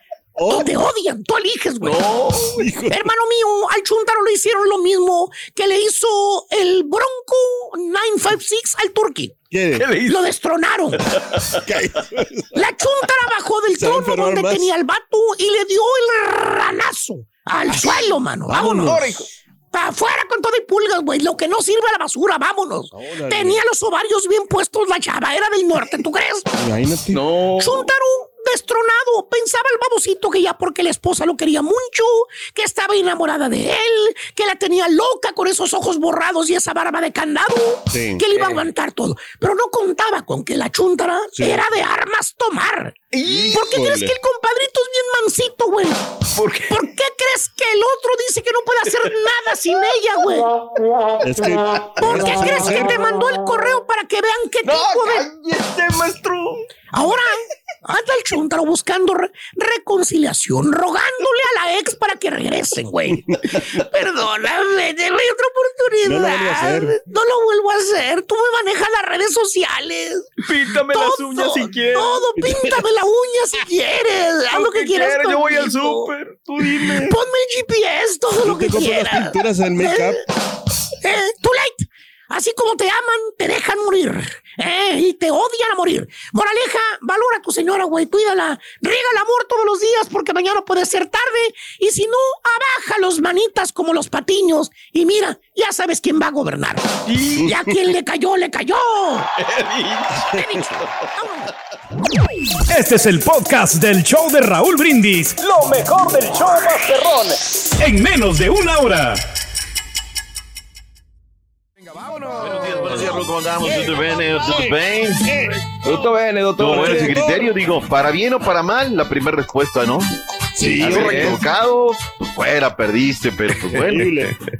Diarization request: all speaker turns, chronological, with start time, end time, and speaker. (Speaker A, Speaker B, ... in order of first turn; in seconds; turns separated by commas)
Speaker A: 0.4-0.7, Speaker B: 0.5-2.0, Speaker C: 1.8-2.6, Speaker A: 2.6-3.0, Speaker B: 2.9-9.4, Speaker A: 9.5-9.9, Speaker C: 9.8-10.2, Speaker B: 10.1-11.0, Speaker C: 11.1-11.6, Speaker A: 11.6-12.5, Speaker B: 12.6-18.9, Speaker A: 13.8-14.7, Speaker A: 17.7-19.2, Speaker C: 18.8-19.3, Speaker B: 19.7-26.5, Speaker A: 22.9-23.6, Speaker A: 26.6-27.2, Speaker C: 27.1-27.9, Speaker B: 27.6-46.0, Speaker A: 37.9-38.2, Speaker C: 38.3-38.7, Speaker A: 41.4-41.6, Speaker A: 43.2-44.1, Speaker C: 46.4-46.8, Speaker B: 46.7-50.5, Speaker A: 51.2-53.0, Speaker B: 52.0-55.3, Speaker C: 54.6-56.6, Speaker B: 56.9-63.3, Speaker B: 63.9-70.3, Speaker A: 66.1-67.0, Speaker C: 70.4-72.2, Speaker B: 70.9-76.1, Speaker A: 72.4-72.7, Speaker C: 74.5-77.2, Speaker B: 76.9-80.2, Speaker A: 78.4-80.2, Speaker B: 81.0-99.3, Speaker C: 97.1-97.5, Speaker A: 97.4-97.7, Speaker C: 99.4-100.3, Speaker B: 100.3-101.5, Speaker D: 102.7-109.2, Speaker E: 112.4-115.3, Speaker A: 112.8-113.1, Speaker A: 113.6-115.6, Speaker C: 115.8-117.3, Speaker E: 116.6-124.1, Speaker A: 116.7-117.5, Speaker A: 120.6-121.5, Speaker C: 120.8-121.4, Speaker A: 123.8-124.3